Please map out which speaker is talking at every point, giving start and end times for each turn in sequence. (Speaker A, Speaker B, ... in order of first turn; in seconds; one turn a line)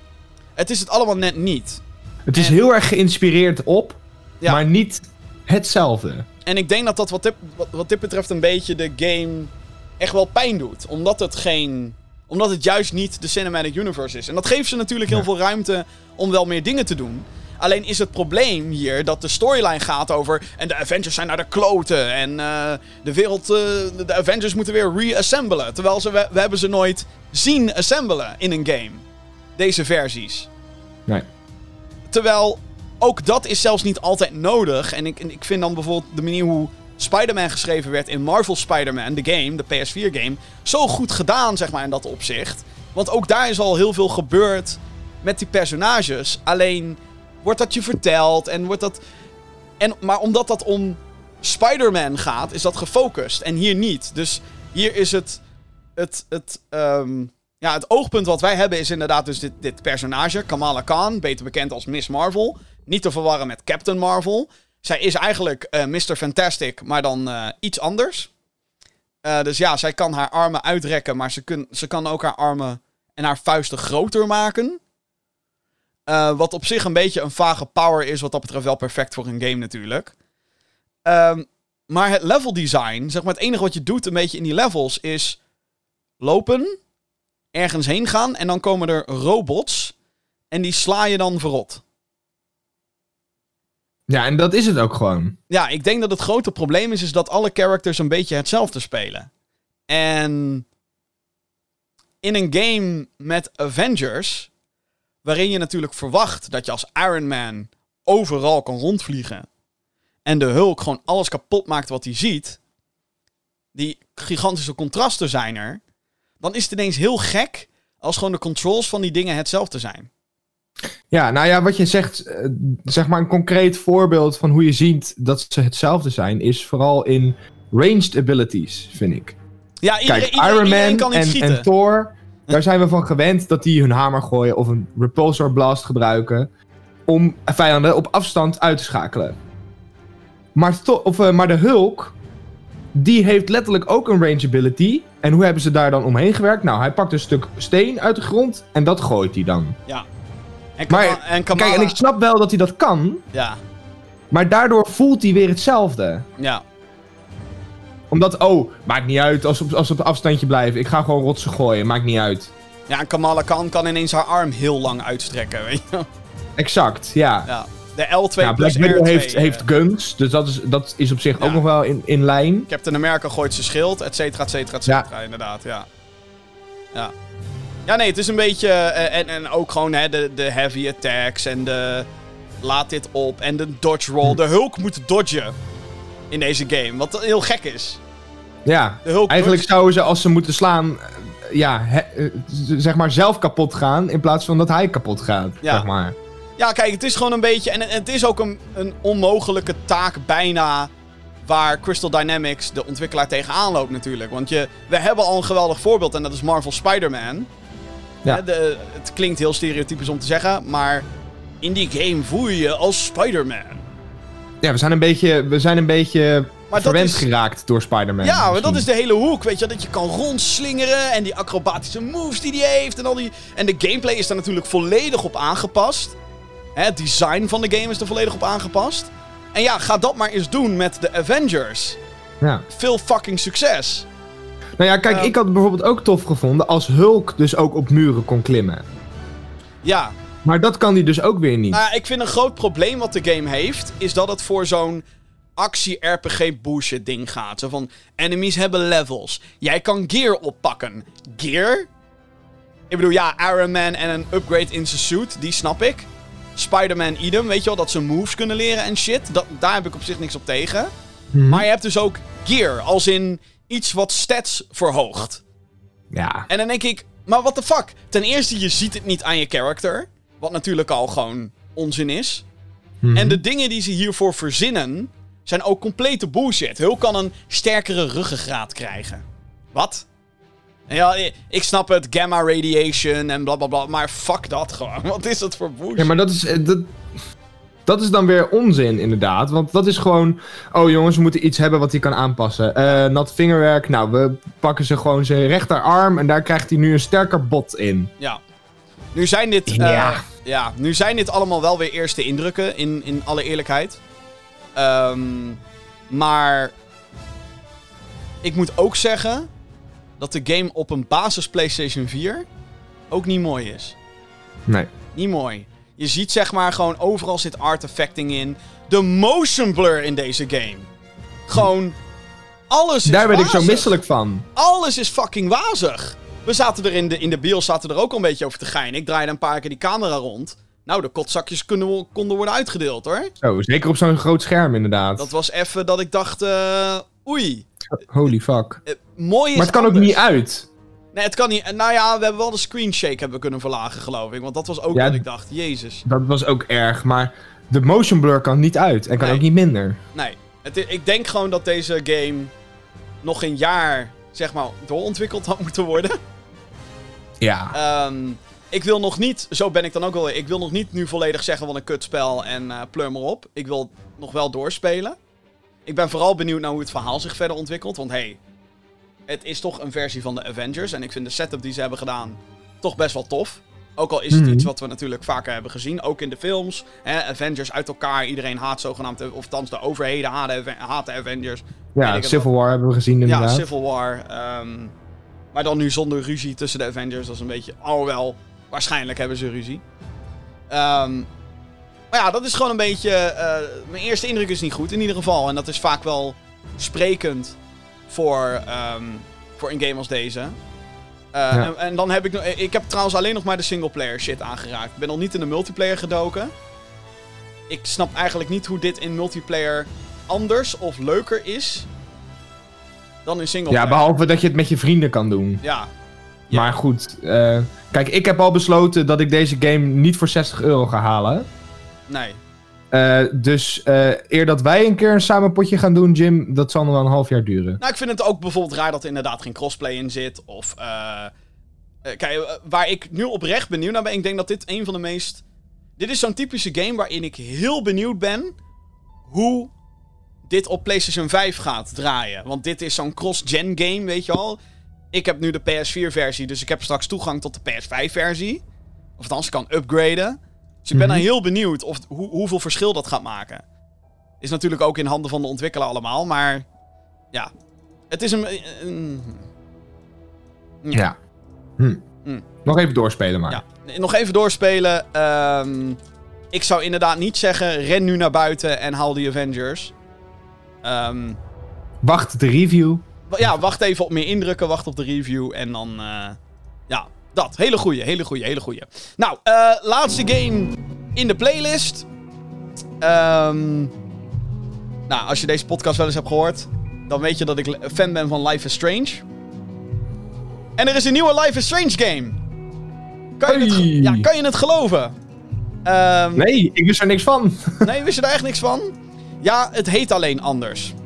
Speaker A: 0.6-1.8
Speaker B: 2.2-6.2
Speaker A: 2.3-2.6
Speaker A: 6.5-29.0
Speaker A: 29.6-30.5
Speaker A: 32.1-49.0
Speaker A: 49.8-55.4
Speaker A: 56.0-68.3
Speaker A: 69.2-74.8
Speaker A: 76.1-80.1
Speaker A: 81.0-85.4
Speaker A: 86.2-86.7
Speaker A: 87.5-89.9
Speaker A: 90.5-91.8
Speaker B: 94.1-95.3
Speaker A: 95.5-99.3
Speaker A: 99.9-100.7
Speaker A: 102.2-104.5
Speaker A: 105.2-109.5
Speaker A: 110.2-112.6
Speaker A: 113.7-115.8
Speaker A: 116.4-120.1
Speaker B: 121.1-129.3
Speaker A: 129.8-131.7
Speaker B: 130.1-136.5
Speaker B: 137.1-139.4
Speaker B: 140.5-142.2
Speaker B: 142.9-149.8
Speaker A: 150.8-152.0
Speaker B: 150.9-153.2
Speaker A: 153.3-153.6
Speaker B: 154.3-156.2
Speaker A: 156.4-156.6
Speaker B: 158.1-162.5
Speaker A: 162.9-166.1
Speaker B: 166.6-167.5
Speaker A: 167.4-169.6
Speaker B: 168.4-172.7
Speaker A: 171.4-171.6
Speaker A: 172.7-175.9
Speaker A: 177.9-182.1
Speaker A: 182.6-185.5
Speaker A: 186.3-188.0
Speaker B: 188.6-196.2
Speaker A: 189.0-189.7
Speaker A: 196.6-200.9
Speaker A: 201.4-207.5
Speaker A: 208.3-211.1
Speaker A: 211.6-213.8
Speaker B: 214.6-218.8
Speaker A: 216.7-217.3
Speaker A: 218.2-226.2
Speaker A: 226.8-232.0
Speaker A: 232.7-234.1
Speaker B: 234.8-238.8
Speaker A: 235.1-235.3
Speaker A: 239.8-240.1
Speaker B: 240.4-241.8
Speaker A: 241.7-245.0
Speaker A: 245.6-251.9
Speaker A: 252.9-260.9
Speaker B: 261.3-261.6
Speaker A: 261.5-265.4
Speaker B: 266.1-266.4
Speaker A: 266.5-272.4
Speaker B: 273.0-273.4
Speaker A: 273.1-280.1
Speaker A: 280.9-286.1
Speaker B: 286.0-286.9
Speaker B: 287.9-298.1
Speaker A: 299.1-304.0
Speaker B: 299.7-300.2
Speaker A: 304.7-306.7
Speaker A: 308.4-309.5
Speaker A: 310.2-312.4
Speaker A: 313.1-313.9
Speaker A: 315.1-320.9
Speaker A: 321.5-322.0
Speaker A: 322.7-323.9
Speaker B: 323.1-324.4
Speaker A: 324.6-333.3
Speaker B: 333.4-335.3
Speaker A: 335.2-337.7
Speaker B: 337.9-338.8
Speaker A: 338.9-340.2
Speaker B: 339.5-340.7
Speaker A: 341.1-346.0
Speaker B: 344.9-345.2
Speaker B: 346.0-350.0
Speaker A: 349.2-349.4
Speaker A: 350.1-352.5
Speaker A: 353.2-356.2
Speaker B: 357.4-357.7
Speaker A: 357.7-365.1
Speaker A: 365.9-368.4
Speaker A: 369.3-382.5
Speaker B: 374.3-374.7
Speaker B: 381.9-383.6
Speaker A: 383.2-384.9
Speaker A: 385.5-389.8
Speaker A: 390.7-391.3
Speaker A: 392.1-397.6
Speaker A: 398.1-400.6
Speaker A: 401.3-406.5
Speaker A: 407.7-411.9
Speaker A: 413.2-414.1
Speaker B: 413.7-415.6
Speaker A: 415.6-415.9
Speaker A: 416.5-416.8
Speaker B: 416.5-421.5
Speaker A: 422.1-422.4
Speaker B: 422.9-427.8
Speaker A: 427.8-431.3
Speaker A: 432.0-435.4
Speaker A: 436.0-438.5
Speaker A: 439.3-439.7
Speaker A: 440.5-444.6
Speaker A: 445.1-448.6
Speaker A: 449.2-453.6
Speaker B: 450.9-451.2
Speaker A: 454.4-456.7
Speaker A: 458.1-459.4
Speaker A: 460.8-461.1
Speaker B: 462.6-463.6
Speaker A: 463.5-466.0
Speaker A: 466.5-469.9
Speaker A: 470.8-471.4
Speaker B: 472.0-473.0
Speaker A: 473.3-476.4
Speaker A: 476.9-482.1
Speaker A: 483.0-483.9
Speaker A: 485.1-489.2
Speaker A: 490.8-492.4
Speaker A: 493.4-495.1
Speaker B: 493.4-494.3
Speaker A: 495.8-496.5
Speaker B: 496.4-497.9
Speaker A: 497.8-500.9